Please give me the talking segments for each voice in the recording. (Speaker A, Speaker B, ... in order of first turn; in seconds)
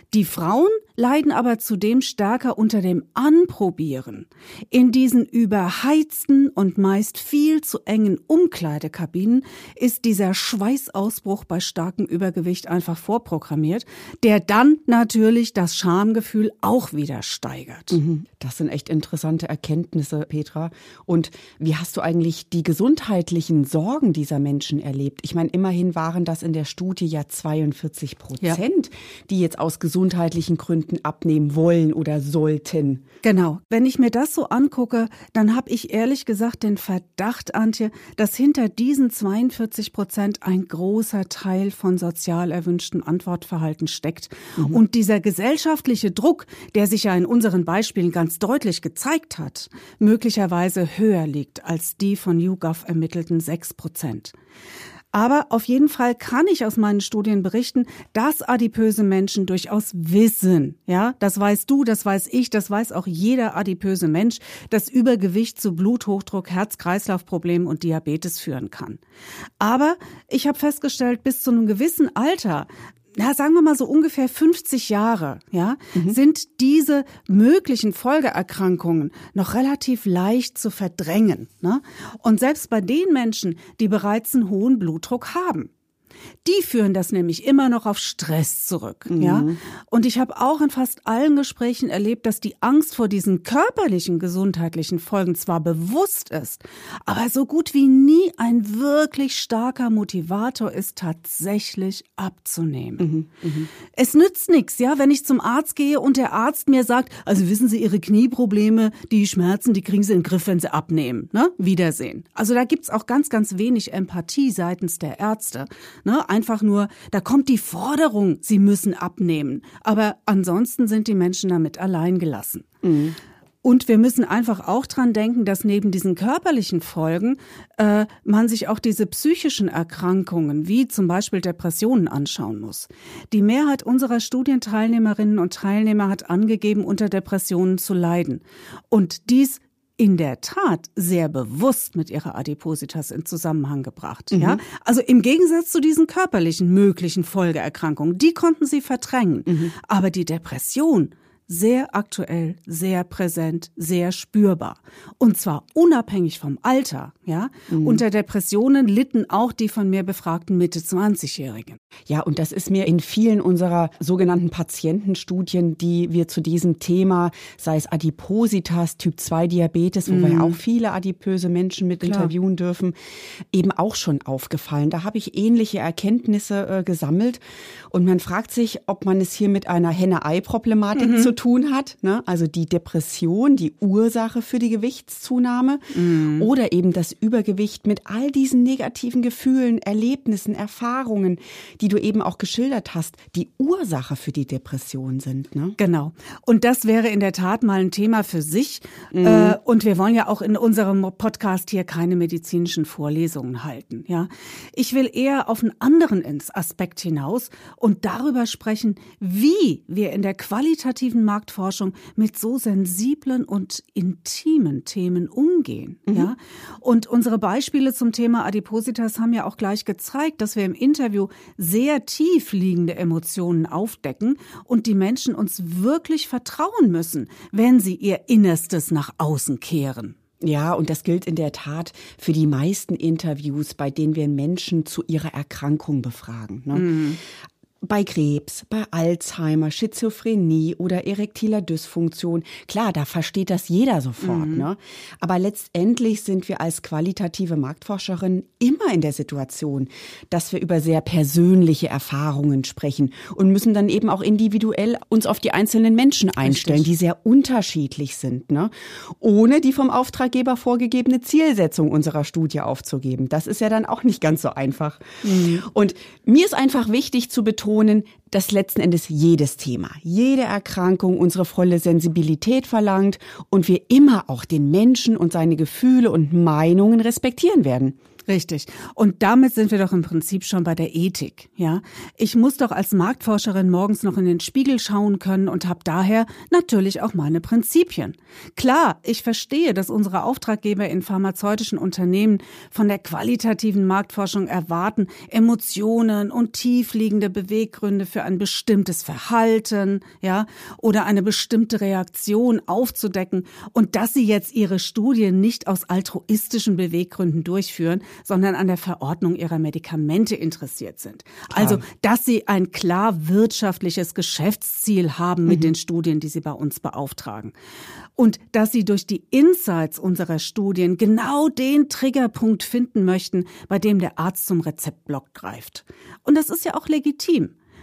Speaker A: 0.1-18.0, 33.2-54.3, 55.1-69.0, 69.6-85.7, 86.4-103.1, 103.9-122.7, 123.6-161.8, 170.1-170.6, 172.0-172.3, 180.9-181.3, 185.9-186.5, 195.8-230.1, 236.7-237.2, 244.2-244.7, 256.4-256.9, 265.2-265.6, 278.3-317.5, 318.2-327.5
Speaker B: 17.9-33.0, 89.1-89.6, 103.0-103.7, 122.8-123.2, 144.3-144.6, 149.5-149.7, 157.7-158.0, 162.1-172.9, 173.5-195.8, 199.1-199.6, 216.1-216.3, 230.4-236.9, 237.8-277.9, 311.5-311.8, 315.5-315.7